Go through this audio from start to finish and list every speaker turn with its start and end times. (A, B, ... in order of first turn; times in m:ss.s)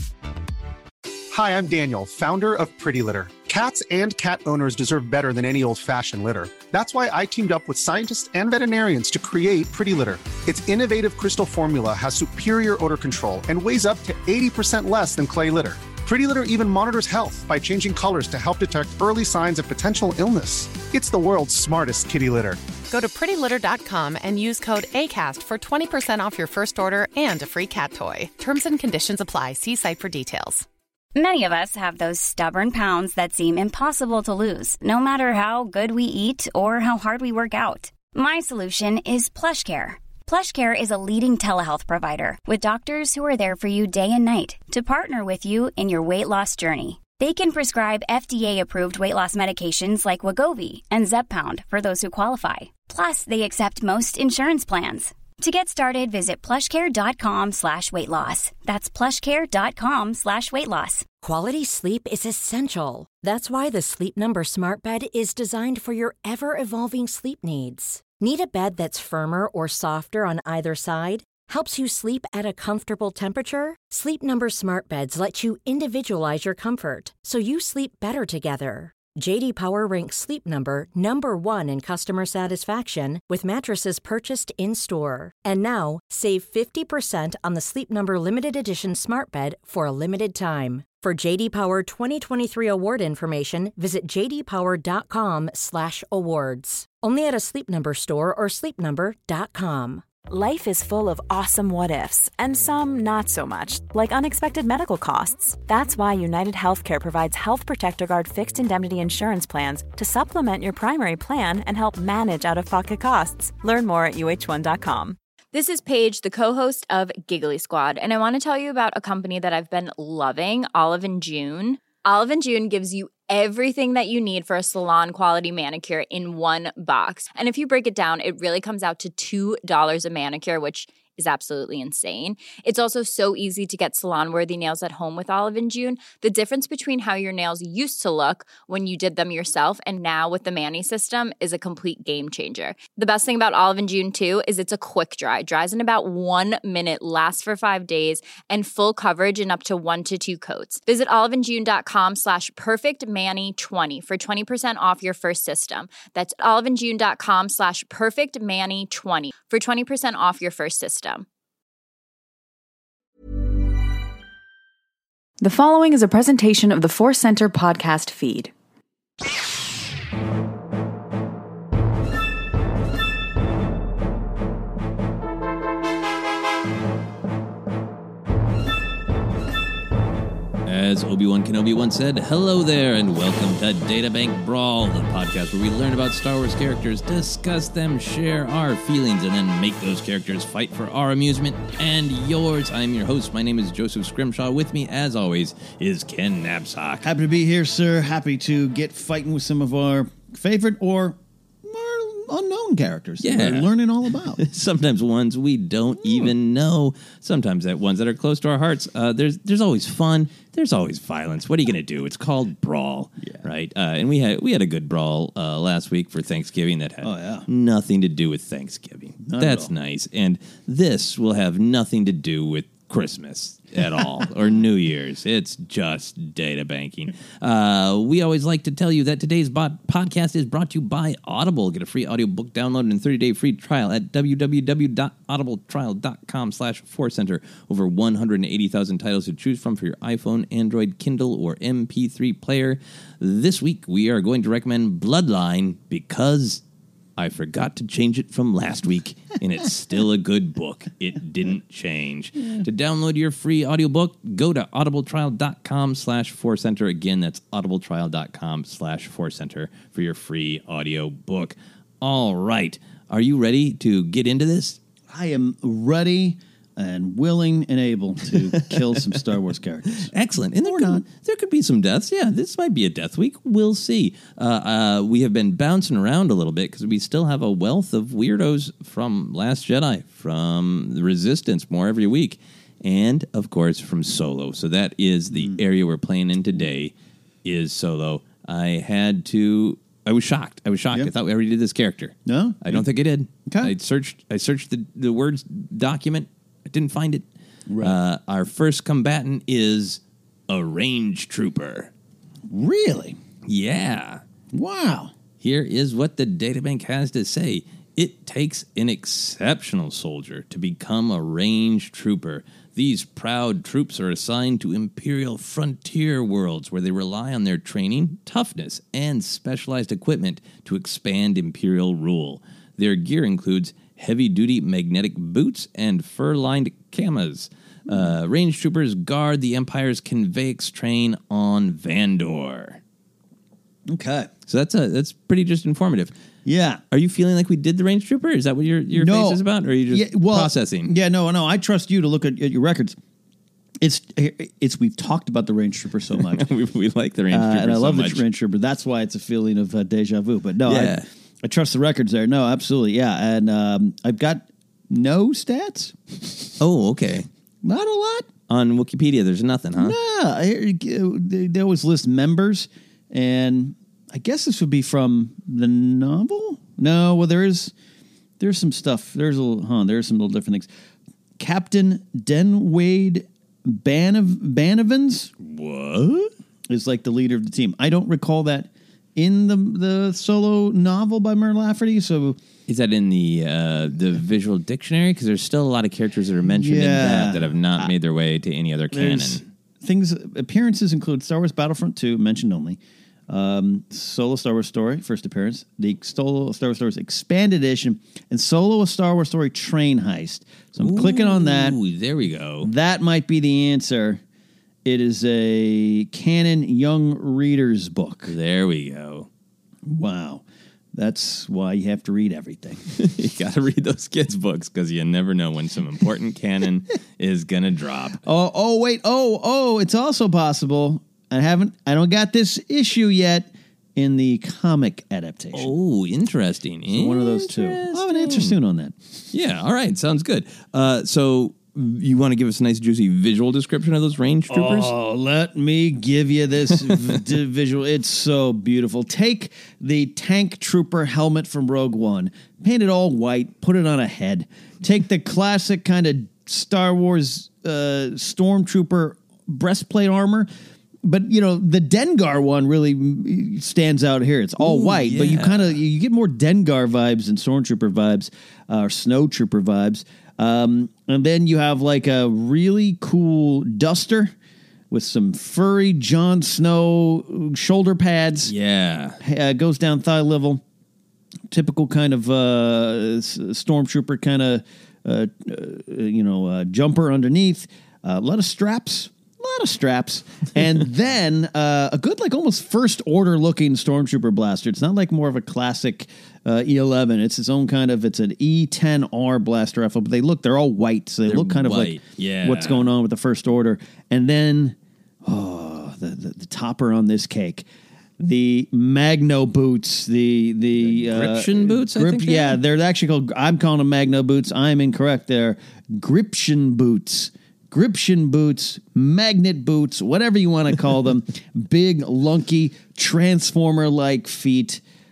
0:01.3-0:22.6 A
0:22.9-0:30.7 B
0:31.2-1:01.1 C
1:01.2-1:40.1 D
1:40.3-1:55.2 E
1:55.5-2:41.3 F
2:45.4-2:48.5 E
3:00.6-3:17.1 G
3:17.0-3:24.4 H
3:23.2-3:23.7 G
3:24.4-4:06.6 G
3:33.2-3:33.5 H
3:37.0-3:37.5 H
3:39.3-3:39.7 H
4:07.2-4:24.8 G
4:25.1-4:30.1 H
4:28.7-4:29.1 G
4:30.1-4:46.9 G
4:30.6-4:31.0 H
4:45.3-4:45.6 H
4:47.4-4:57.3 G
4:52.3-4:52.9 H
4:53.5-4:53.7 H
4:57.7-4:58.0 H
4:57.8-5:01.9 G
5:02.5-5:03.2 H
5:03.5-5:04.2 G
5:04.5-5:05.1 H
5:05.4-5:32.8 G
5:33.9-5:34.3 H
5:34.5-5:36.1 G
5:36.4-5:36.8 H
5:36.9-5:40.9 G
5:38.9-5:43.0 H
5:43.8-5:46.5 H
5:46.2-5:48.2 G
5:47.3-5:56.6 H
5:50.7-5:51.1 G
5:56.6-5:57.3 G
5:57.6-5:58.3 H
5:58.5-6:00.0 G
5:59.8-6:07.7 H
6:08.4-6:10.7 H
6:11.4-6:15.3 H
6:15.4-6:16.3 G
6:16.7-6:22.4 H
6:22.7-6:29.4 G
6:26.5-6:27.9 H
6:28.9-6:41.8 H
6:40.8-6:42.7 G
6:42.6-6:44.2 H
6:44.8-6:48.4 H
6:48.3-6:49.3 G
6:49.8-6:52.8 H
6:53.0-6:58.2 G
6:58.2-7:05.7 H
7:05.5-7:08.6 G
7:06.9-7:09.0 H
7:09.3-7:14.9 G
7:14.5-7:30.5 H
7:16.8-7:17.2 G
7:31.0-7:44.3 H
7:34.6-7:35.8 G
7:44.9-7:48.5 H
7:48.5-7:49.2 G
7:49.2-7:50.6 H
7:51.5-8:17.6 H
8:11.3-8:12.9 G
8:18.2-8:34.8 H
8:20.8-8:22.6 G